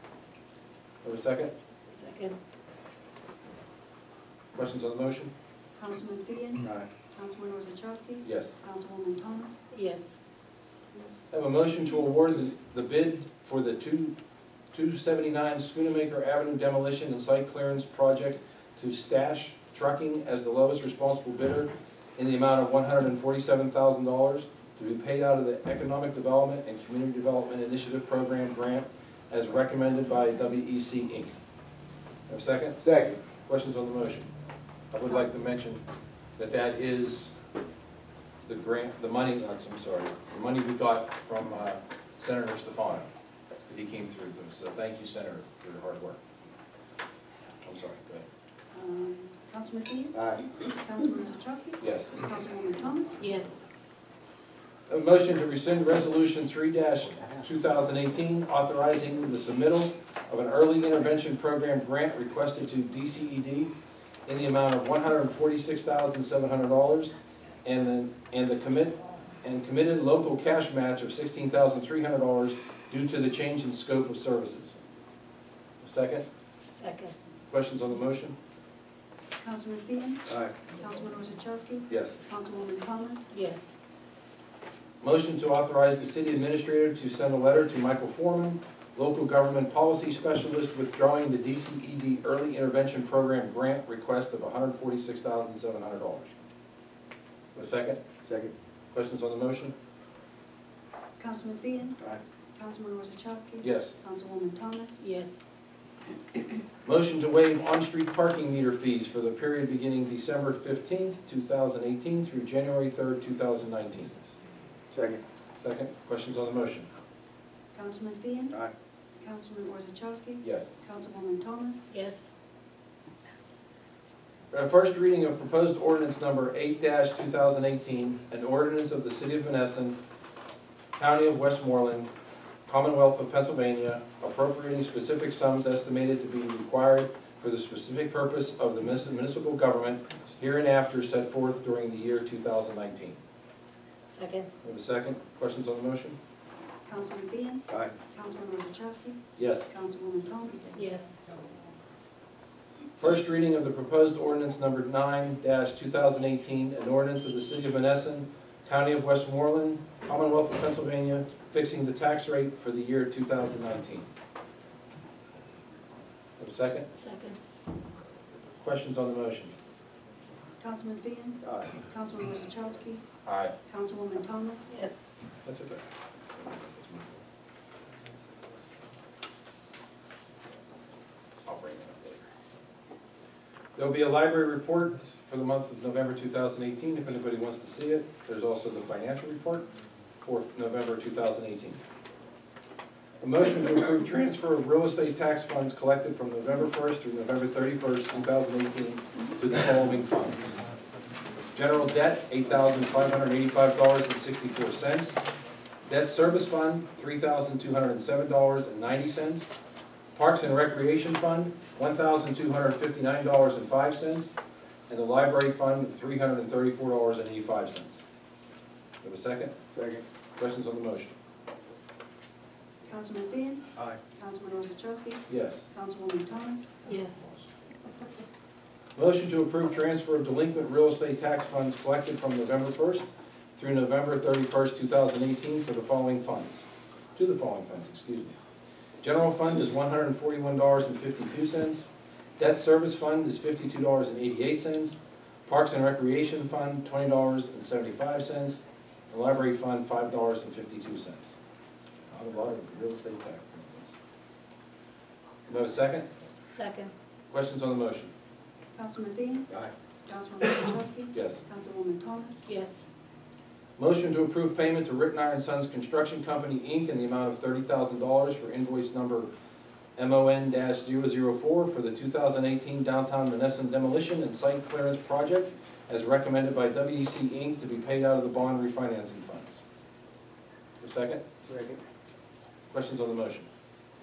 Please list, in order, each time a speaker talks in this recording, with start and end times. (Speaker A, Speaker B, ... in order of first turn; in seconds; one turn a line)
Speaker A: 1.0-1.5
Speaker B: 1.9-2.4
Speaker A: 4.5-5.3
Speaker C: 5.8-9.6
Speaker A: 8.2-8.5
Speaker B: 9.7-10.1
Speaker A: 11.3-14.1
Speaker A: 14.7-31.4
Speaker A: 32.3-34.3
Speaker D: 32.8-33.1
Speaker A: 34.9-35.8
Speaker A: 36.4-37.3
Speaker A: 38.5-43.1
Speaker A: 43.7-46.2
Speaker A: 47.6-48.2
Speaker C: 48.7-53.2
Speaker D: 50.1-50.5
Speaker A: 51.8-52.2
Speaker B: 53.2-53.6
Speaker A: 54.9-63.7
Speaker A: 64.2-67.1
Speaker A: 67.6-74.8
Speaker A: 75.8-76.2
Speaker B: 76.7-77.1
Speaker A: 77.5-78.3
Speaker C: 79.4-83.3
Speaker D: 80.3-80.5
Speaker A: 81.9-82.2
Speaker B: 83.3-83.7
Speaker A: 85.0-96.3
Speaker A: 97.5-98.0
Speaker D: 98.2-98.5
Speaker A: 98.9-99.7
Speaker C: 101.2-102.0
Speaker C: 102.5-105.0
Speaker A: 103.6-103.9
Speaker B: 105.0-105.4
Speaker A: 106.8-114.1
Speaker D: 114.9-115.2
Speaker A: 115.6-116.9
Speaker C: 117.7-118.5
Speaker C: 119.2-121.9
Speaker A: 120.4-120.7
Speaker B: 121.9-122.3
Speaker A: 124.5-130.0
Speaker A: 130.9-132.1
Speaker A: 132.7-143.2
Speaker B: 144.1-144.5
Speaker A: 144.6-146.2
Speaker C: 146.8-150.8
Speaker A: 149.3-149.7
Speaker B: 150.7-151.2
Speaker A: 153.0-164.1
Speaker A: 166.4-166.9
Speaker B: 166.9-167.4
Speaker A: 168.6-169.5
Speaker C: 170.6-173.0
Speaker D: 171.4-171.7
Speaker A: 173.2-173.5
Speaker C: 173.7-174.7
Speaker B: 174.7-175.1
Speaker A: 175.4-175.8
Speaker A: 176.4-177.2
Speaker A: 181.4-182.2
Speaker A: 183.8-189.7
Speaker A: 190.2-191.8
Speaker A: 193.2-200.6
Speaker A: 201.5-205.1
Speaker A: 205.8-209.5
Speaker A: 210.1-214.3
Speaker A: 214.9-218.0
Speaker A: 219.0-219.5
Speaker D: 219.7-220.0
Speaker A: 220.4-221.1
Speaker C: 222.8-226.7
Speaker A: 225.3-225.7
Speaker B: 226.8-227.2
Speaker A: 226.9-227.3
Speaker A: 228.9-233.0
Speaker A: 233.6-238.3
Speaker A: 239.0-241.9
Speaker A: 242.4-251.3
Speaker A: 252.1-253.9
Speaker A: 255.5-256.1
Speaker B: 256.5-256.9
Speaker A: 257.3-258.1
Speaker C: 258.7-259.5
Speaker C: 260.1-262.4
Speaker A: 261.1-261.4
Speaker B: 262.4-262.8
Speaker A: 263.8-269.3
Speaker A: 270.0-279.6
Speaker A: 280.8-281.2
Speaker D: 281.4-281.8
Speaker A: 282.7-283.5